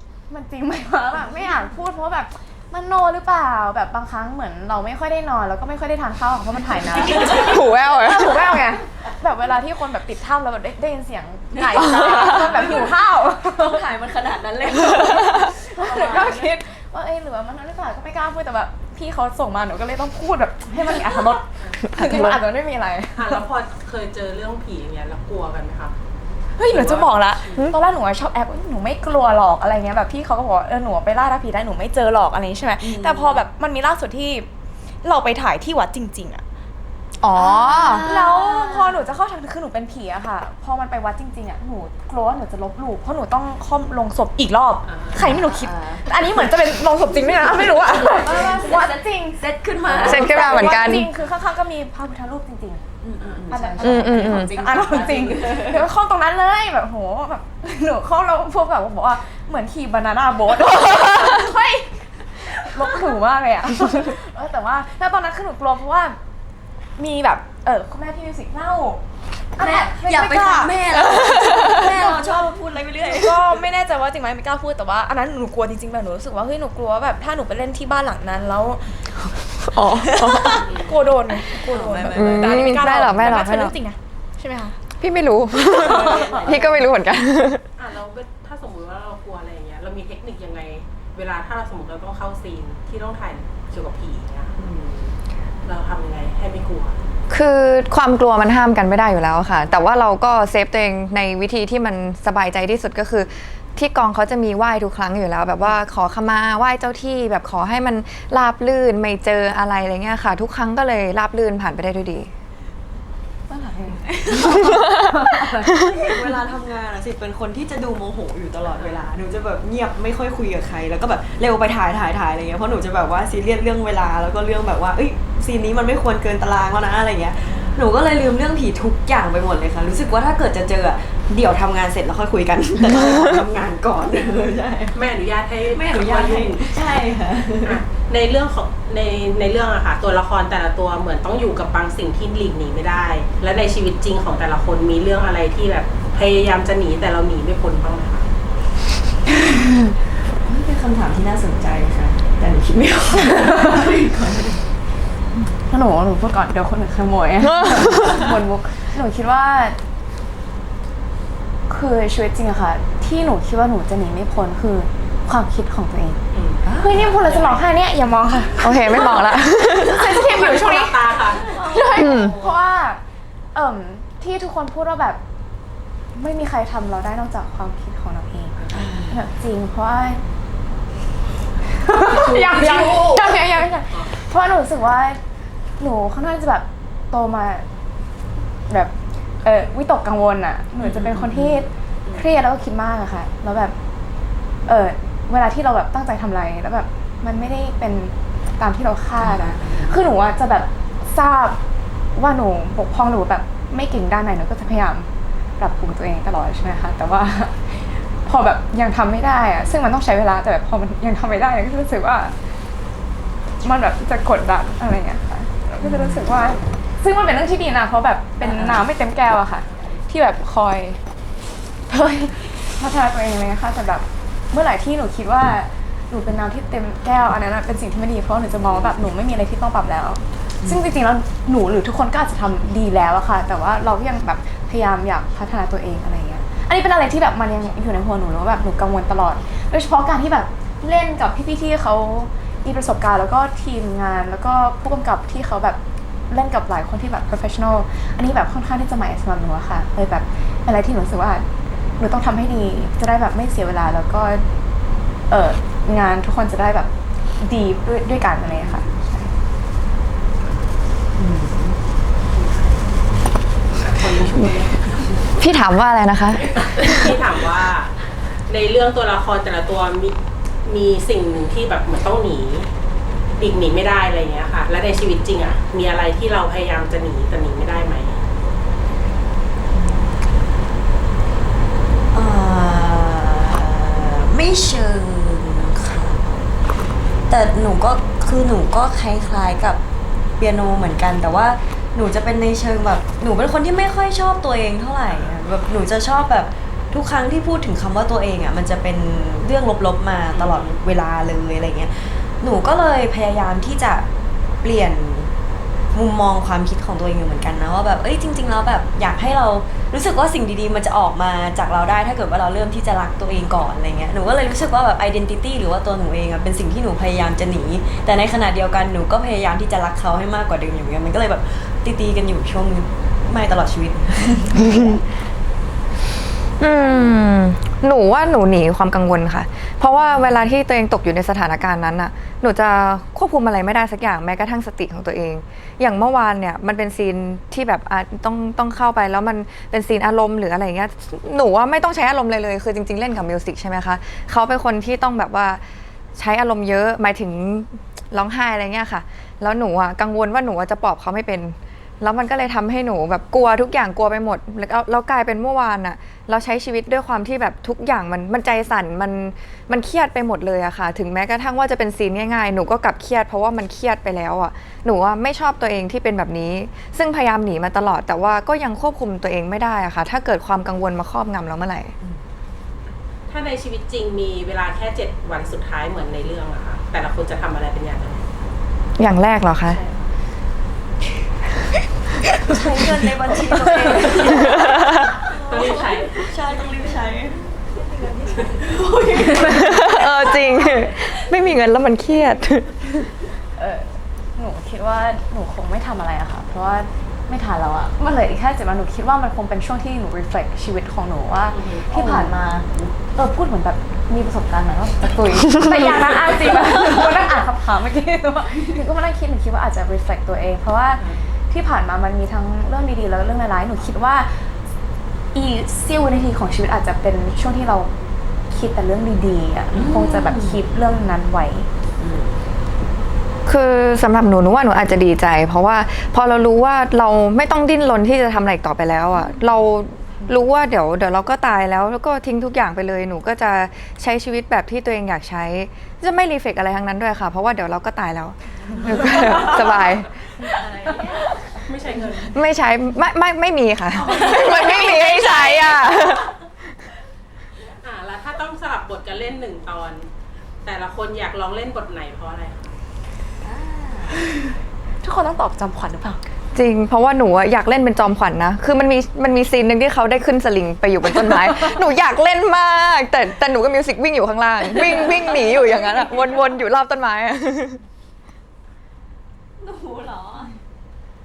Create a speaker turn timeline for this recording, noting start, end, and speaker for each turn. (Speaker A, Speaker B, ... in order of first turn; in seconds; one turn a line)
Speaker A: 0.3-13.8
Speaker B: 7.0-7.6
Speaker C: 7.2-8.7
Speaker B: 11.6-15.6
Speaker C: 12.0-12.4
Speaker A: 15.1-23.4
Speaker D: 15.5-16.5
Speaker C: 21.9-22.4
Speaker D: 23.2-25.9
Speaker A: 26.6-34.5
Speaker D: 26.7-27.7
Speaker B: 32.8-33.5
Speaker A: 35.0-36.4
Speaker C: 37.2-38.1
Speaker B: 37.4-39.0
Speaker A: 37.4-52.9
Speaker D: 44.9-45.3
Speaker B: 45.1-46.1
Speaker B: 47.7-51.1
Speaker C: 50.0-51.1
Speaker B: 53.0-55.9
Speaker D: 53.2-53.5
Speaker A: 53.5-66.2
Speaker C: 53.8-54.5
Speaker A: 67.0-69.0
Speaker A: 69.6-79.0
Speaker B: 69.6-73.4
Speaker C: 79.6-80.7
Speaker B: 80.1-80.7
Speaker A: 80.4-84.8
Speaker D: 80.6-81.0
Speaker B: 81.5-82.8
Speaker C: 82.1-83.8
Speaker D: 82.4-83.2
Speaker C: 85.0-87.7
Speaker D: 85.6-87.0
Speaker A: 85.8-86.3
Speaker D: 87.8-94.7
Speaker B: 94.6-95.1
Speaker D: 95.7-97.0
Speaker C: 97.3-112.3
Speaker A: 113.5-116.0
Speaker B: 114.3-135.0
Speaker C: 114.8-115.1
Speaker D: 134.9-136.7
Speaker B: 135.7-137.8
Speaker D: 137.7-148.3
Speaker B: 150.3-154.7
Speaker A: 153.4-153.9
Speaker A: 155.7-159.8
Speaker C: 157.4-158.3
Speaker A: 161.7-166.2
Speaker D: 166.3-167.7
Speaker A: 166.8-173.0
Speaker C: 168.6-170.2
Speaker B: 168.9-169.2
Speaker D: 170.1-171.6
Speaker B: 171.1-172.6
Speaker C: 171.9-172.4
Speaker A: 173.5-175.2
Speaker A: 176.2-178.6
Speaker B: 178.7-179.2
Speaker A: 179.1-180.2
Speaker A: 181.8-185.2
Speaker B: 182.1-183.2
Speaker A: 185.8-187.7
Speaker A: 188.7-193.8
Speaker B: 190.8-191.6
Speaker A: 194.7-201.6
Speaker B: 199.2-199.9
Speaker A: 202.2-205.1
Speaker A: 205.6-212.3
Speaker A: 213.6-221.0
Speaker B: 215.8-216.2
Speaker B: 218.4-218.9
Speaker A: 221.9-245.8
Speaker A: 246.3-251.5
Speaker A: 252.0-254.4
Speaker A: 255.3-259.3
Speaker B: 261.2-261.8
Speaker D: 262.3-262.8
Speaker D: 263.8-265.3
Speaker C: 265.4-267.0
Speaker D: 266.6-272.7
Speaker D: 273.4-278.2
Speaker B: 279.7-280.1
Speaker B: 282.1-286.5
Speaker B: 287.3-289.8
Speaker B: 290.4-304.1
Speaker D: 300.3-300.7
Speaker B: 304.6-305.3
Speaker B: 305.9-325.0
Speaker C: 324.6-325.0
Speaker C: 326.6-345.6
Speaker C: 346.2-371.9
Speaker D: 373.3-378.3
Speaker C: 379.0-379.8
Speaker D: 379.7-380.1
Speaker C: 382.2-382.8
Speaker B: 382.5-387.5
Speaker C: 383.6-385.2
Speaker D: 383.9-384.6
Speaker D: 385.4-386.3
Speaker B: 388.4-390.9
Speaker C: 389.4-393.1
Speaker A: 393.6-402.4
Speaker D: 401.5-401.9
Speaker B: 401.9-402.9
Speaker A: 403.1-414.4
Speaker B: 405.6-407.2
Speaker D: 411.0-411.3
Speaker A: 415.3-417.9
Speaker A: 418.5-421.7
Speaker B: 419.7-420.6
Speaker B: 422.0-422.4
Speaker C: 423.5-440.1
Speaker D: 438.8-442.4
Speaker B: 438.9-439.5
Speaker B: 440.4-441.2
Speaker C: 442.2-446.3
Speaker B: 444.0-446.0
Speaker A: 444.4-445.6
Speaker D: 447.8-450.1
Speaker D: 450.6-452.8
Speaker B: 453.4-454.2
Speaker A: 455.0-456.2
Speaker C: 456.5-467.8
Speaker B: 464.7-466.5
Speaker B: 469.6-470.6